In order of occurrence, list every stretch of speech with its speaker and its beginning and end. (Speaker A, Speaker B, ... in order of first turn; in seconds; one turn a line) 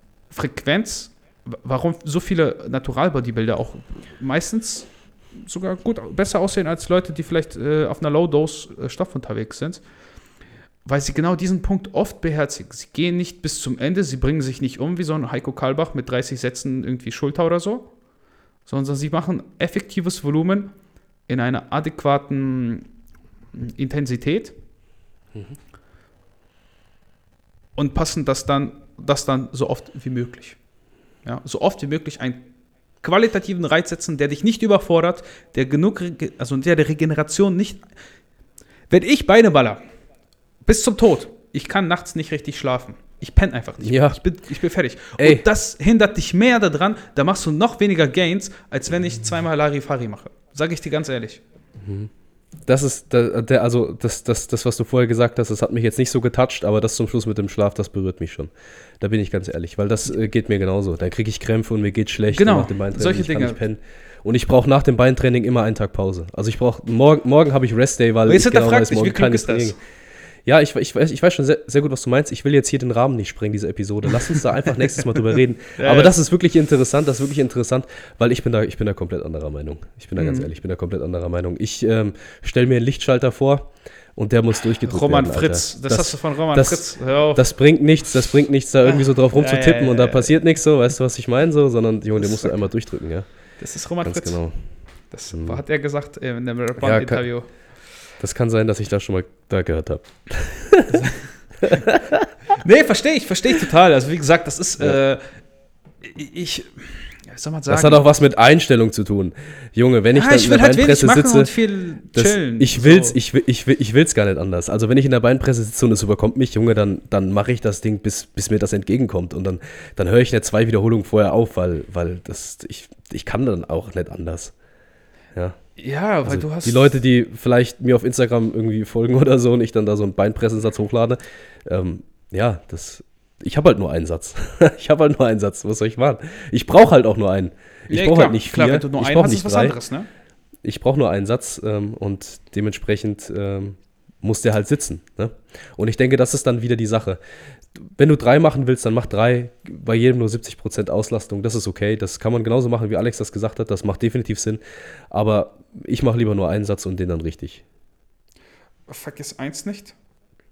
Speaker A: 0.3-9.8
Speaker A: 10.8-17.9
Speaker A: 18.6-20.7
Speaker A: 21.3-22.9
Speaker A: 23.5-24.5
Speaker A: 27.8-30.6
Speaker A: 31.2-32.5
Speaker A: 33.0-37.8
Speaker A: 38.9-39.8
Speaker A: 40.6-51.4
Speaker B: 43.8-44.2
Speaker B: 45.2-45.4
Speaker B: 51.8-52.1
Speaker B: 52.6-69.8
Speaker A: 62.3-63.6
Speaker A: 68.3-69.8
Speaker B: 70.4-93.3
Speaker A: 75.8-76.1
Speaker A: 80.2-80.5
Speaker A: 84.8-87.4
Speaker A: 88.8-90.3
Speaker A: 92.2-92.5
Speaker A: 93.6-94.4
Speaker B: 94.0-94.6
Speaker A: 95.1-97.5
Speaker B: 95.3-95.6
Speaker B: 96.8-97.2
Speaker B: 98.2-101.0
Speaker A: 100.9-101.8
Speaker B: 101.6-102.3
Speaker A: 102.6-105.4
Speaker A: 106.0-108.0
Speaker B: 107.7-111.5
Speaker A: 110.1-113.2
Speaker B: 112.1-124.5
Speaker A: 125.8-127.0
Speaker B: 126.2-139.8
Speaker A: 137.9-140.1
Speaker B: 140.6-147.2
Speaker B: 147.7-157.6
Speaker A: 158.9-159.9